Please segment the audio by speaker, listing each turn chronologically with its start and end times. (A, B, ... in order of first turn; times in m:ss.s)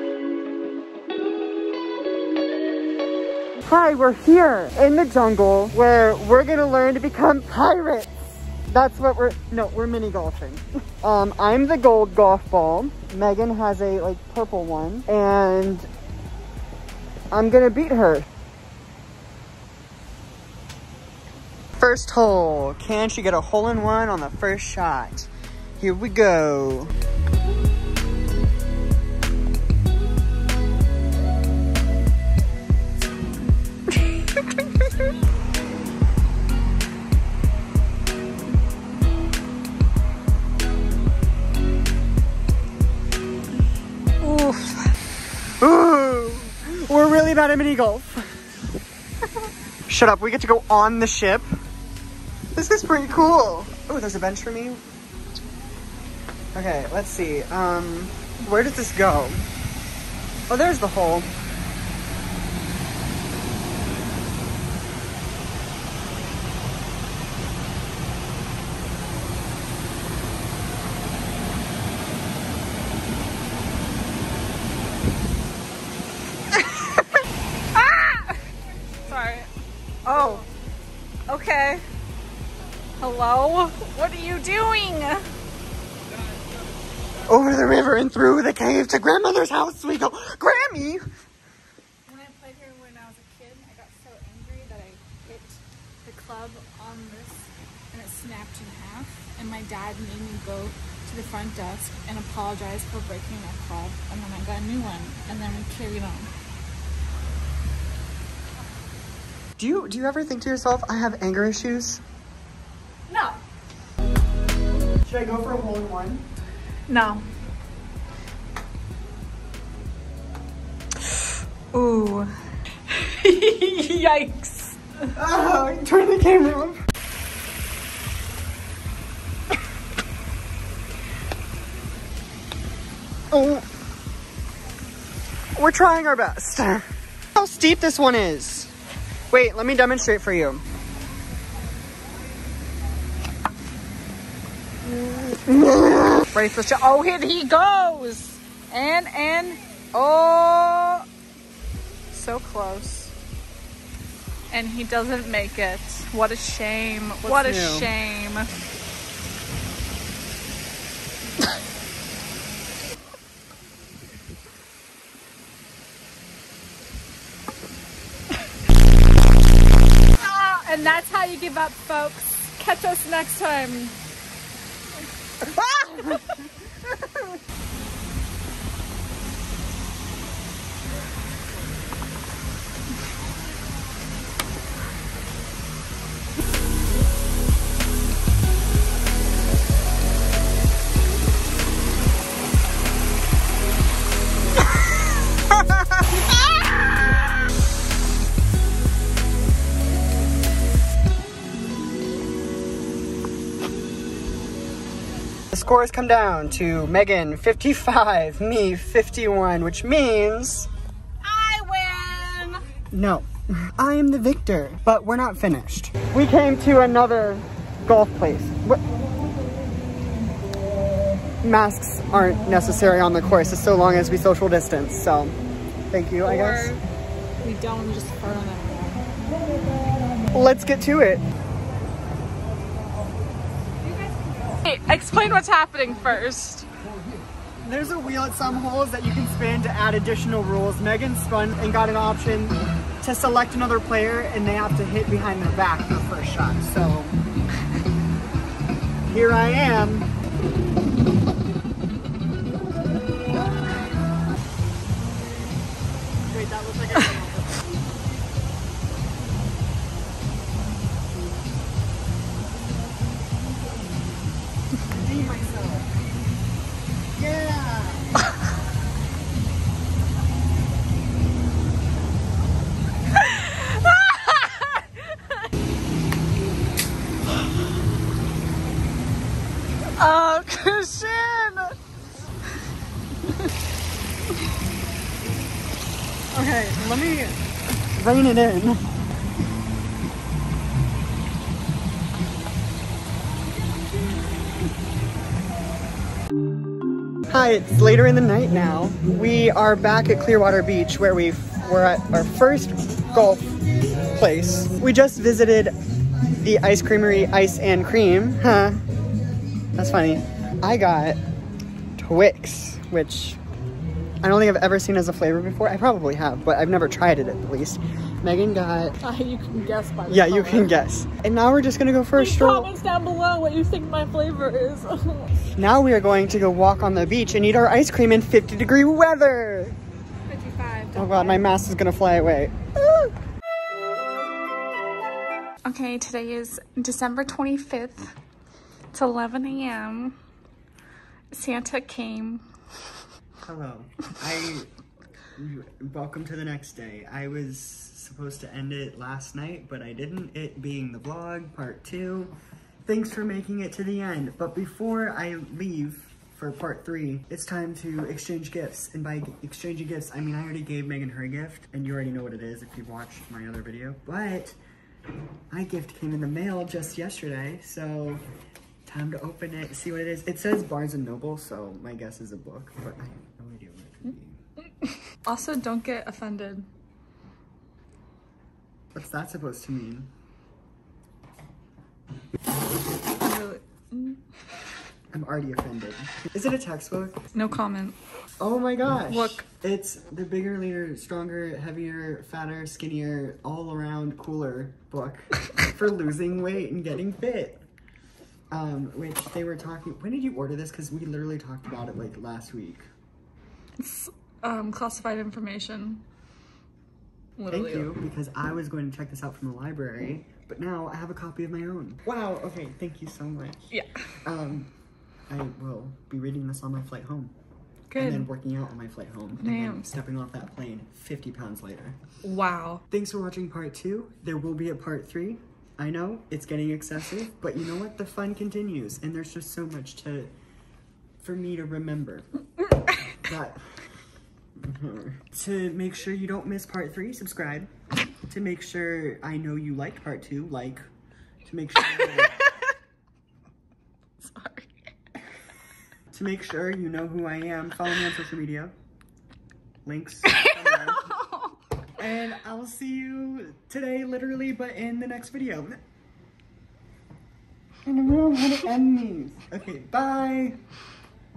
0:03.7-0:15.9 A
0:17.3-0:18.3 A
0:21.8-0:26.9 A
0:44.2-0:44.9 B
0:45.6-0:48.3 A
0:49.9-0:51.5 A
0:52.6-0:54.8 A
0:56.5-0:59.4 A
1:00.5-1:01.3 A
1:16.5-1:17.1 B
1:17.7-1:18.4 B
1:19.0-1:19.5 B
1:20.1-1:20.4 B
1:21.3-1:21.8 B
1:23.0-1:25.2 B
1:27.2-1:31.0 A
1:32.1-1:46.3 B
1:49.6-1:52.0 A
1:53.1-1:53.4 B
1:55.0-1:56.2 A
1:56.9-1:57.3 B
2:01.7-2:02.3 B
2:02.9-2:05.1 B
2:05.1-2:06.8 A
2:13.3-2:13.6 A
2:15.6-2:18.7 A
2:19.3-2:20.6 A
2:25.5-2:26.2 A
2:26.3-2:31.1 B
2:32.1-2:33.2 B
2:34.5-2:38.5 B
2:37.2-2:37.9 A
2:50.2-2:54.0 B
2:55.5-2:56.4 A
3:25.5-3:30.7 A
3:31.2-3:32.6 B
3:32.9-3:38.8 A
3:41.4-3:45.4 A
3:45.9-3:46.7 A
3:46.2-3:46.8 B
3:47.4-3:49.1 B
3:50.3-3:51.2 A
3:54.0-3:56.7 B
3:57.6-4:07.2 A
4:09.1-4:10.1 A
4:16.3-4:17.6 A
4:24.8-4:25.9 A
4:27.2-4:28.1 A
4:33.1-4:35.2 B
4:40.0-4:41.7 B
4:46.4-4:47.4 B
4:47.9-4:48.8 A
4:57.3-5:03.6 A
5:04.1-5:05.7 A
5:06.3-5:08.8 A
5:09.8-5:11.2 A
5:12.0-5:13.4 A
5:14.2-5:19.0 A
5:19.0-5:20.7 B
5:20.1-5:22.7 A
5:22.1-5:25.5 B
5:25.6-5:29.8 A
5:30.3-5:31.6 B
5:31.0-5:32.5 A
5:32.8-5:33.1 B
5:35.7-5:38.1 B
5:38.9-5:40.2 B
5:41.3-5:42.4 B
5:43.4-5:44.7 A
5:45.4-5:52.3 A
5:52.8-6:04.6 A
6:05.5-6:08.2 A
6:08.9-6:14.4 A
6:14.8-6:16.7 B
6:18.9-6:20.1 A
6:23.1-6:24.2 B
6:25.1-6:27.2 A
6:27.3-6:28.0 B
6:28.4-6:37.6 A
6:29.1-6:29.4 B
6:38.5-6:42.8 A
6:43.8-6:46.0 B
6:47.4-6:48.0 B
6:47.5-6:53.7 A
6:53.7-6:54.1 B
6:54.2-6:54.7 A
6:55.3-6:57.3 A
6:57.9-6:58.3 B
6:58.0-7:02.0 A
6:59.4-6:59.9 B
7:02.2-7:02.8 B
7:02.9-7:10.3 A
7:11.2-7:12.3 A
7:13.2-7:13.6 A
7:14.6-7:17.7 A
7:18.3-7:20.8 A
7:21.5-7:22.5 A
7:21.9-7:22.7 B
7:24.2-7:24.7 B
7:26.1-7:28.7 A
7:29.8-7:31.2 A
7:30.2-7:31.6 B
7:32.0-7:35.8 A
7:37.8-7:40.6 A